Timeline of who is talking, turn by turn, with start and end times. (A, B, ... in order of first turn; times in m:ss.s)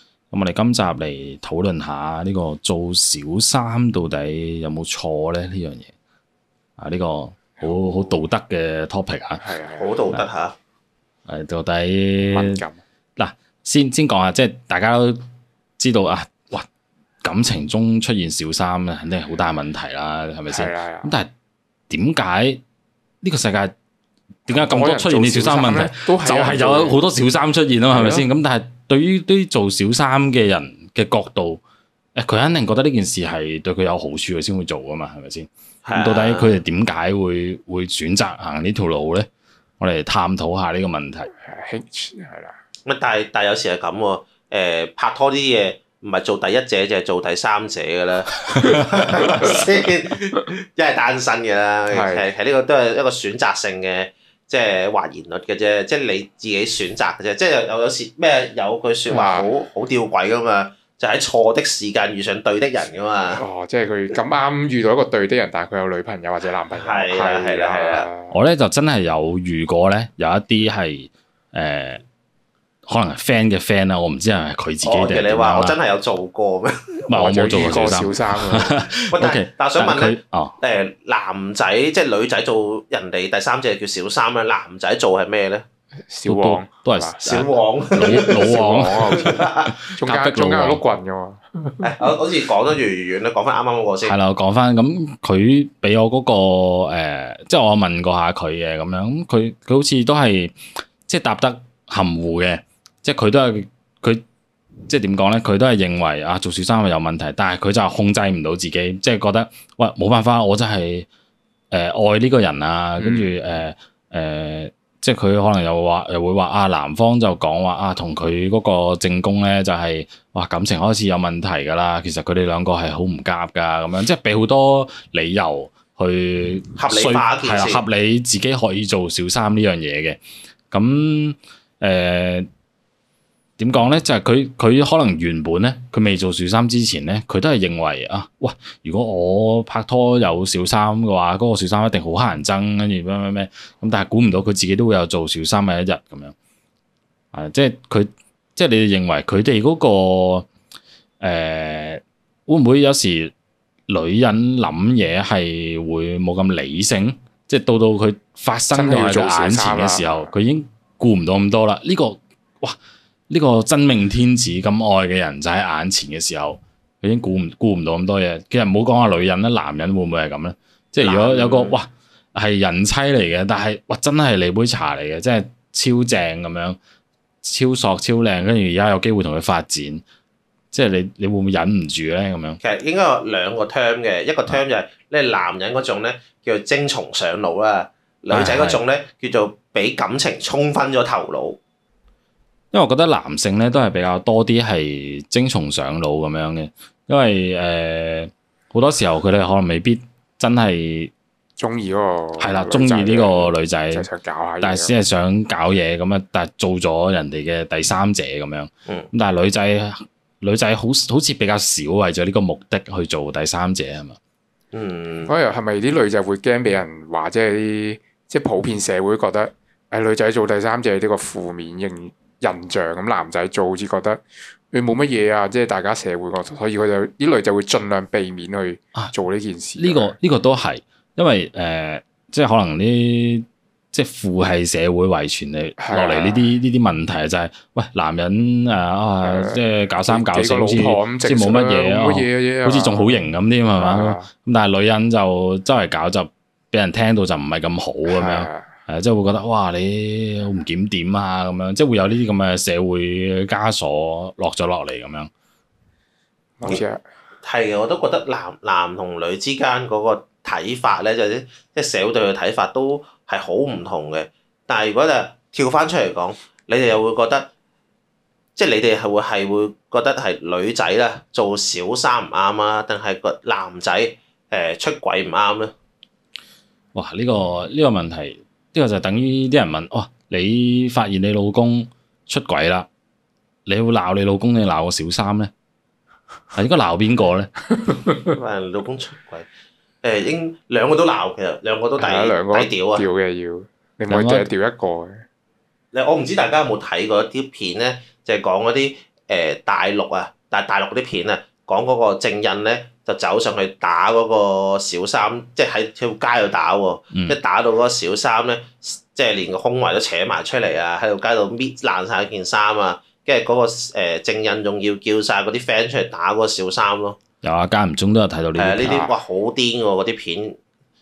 0:00.3-0:05.9 A
0:06.8-0:09.4 A
0:09.4-0:09.9 B
0:09.8-0:10.6 C
0:11.3-0:12.6 A
0:12.3-0:12.8 B
0:13.2-0:15.2 A
0:15.8-0:16.6 A
0:17.2-0:21.3 A
0:20.5-0:21.1 B
0:21.9-0:22.6 A
0:23.2-0:23.7 A
0:24.4-0:31.6 A
0:24.5-0:27.0 B
0:27.9-0:28.3 B
0:32.2-0:39.3 A
0:35.8-0:36.6 C
0:39.8-0:41.3 A
0:41.4-0:42.5 B
0:42.8-1:03.4 C
0:51.9-0:52.3 B
0:59.1-0:59.5 B
1:03.3-1:08.4 B
1:06.8-1:08.1 C
1:08.3-1:12.0 A
1:12.8-1:15.8 A
1:14.8-1:16.9 C
1:17.1-1:20.6 A
1:17.1-1:18.8 B
1:19.1-1:25.6 C
1:26.1-1:31.4 B
1:26.2-1:30.8 A
1:27.2-1:29.7 C
1:31.8-1:34.2 C
1:34.0-1:40.5 A
1:41.0-1:44.2 A
1:44.9-1:51.1 A
1:51.7-2:10.2 A
1:53.0-1:53.3 B
2:06.7-2:07.8 C
2:10.7-2:12.5 A
2:13.6-2:26.3 A
2:27.3-2:30.5 A
2:31.2-2:33.3 A
2:33.9-2:42.8 A
2:38.7-2:40.3 B
2:43.3-2:56.8 A
2:51.0-2:51.8 C
2:57.4-3:00.0 A
3:00.7-3:02.6 A
3:02.6-3:11.6 C
3:08.3-3:08.8 A
3:12.7-3:21.1 A
3:21.6-3:24.9 B
3:22.4-3:24.1 A
3:24.6-3:34.2 A
3:34.7-3:35.3 C
3:35.2-3:50.2 B
3:49.8-4:15.3 A
3:55.8-3:56.5 B
3:59.2-4:04.3 B
4:08.1-4:08.7 B
4:16.6-4:17.0 B
4:17.4-4:27.5 C
4:28.6-4:35.7 C
4:36.9-4:42.9 A
4:43.6-4:45.5 A
4:46.5-4:47.5 A
4:48.2-4:49.5 C
4:50.0-4:53.0 C
4:52.0-4:55.2 B
4:54.1-4:54.5 A
4:55.9-5:17.2 C
5:07.1-5:07.4 A
5:17.4-5:19.0 A
5:18.5-5:20.6 C
5:18.8-5:19.1 B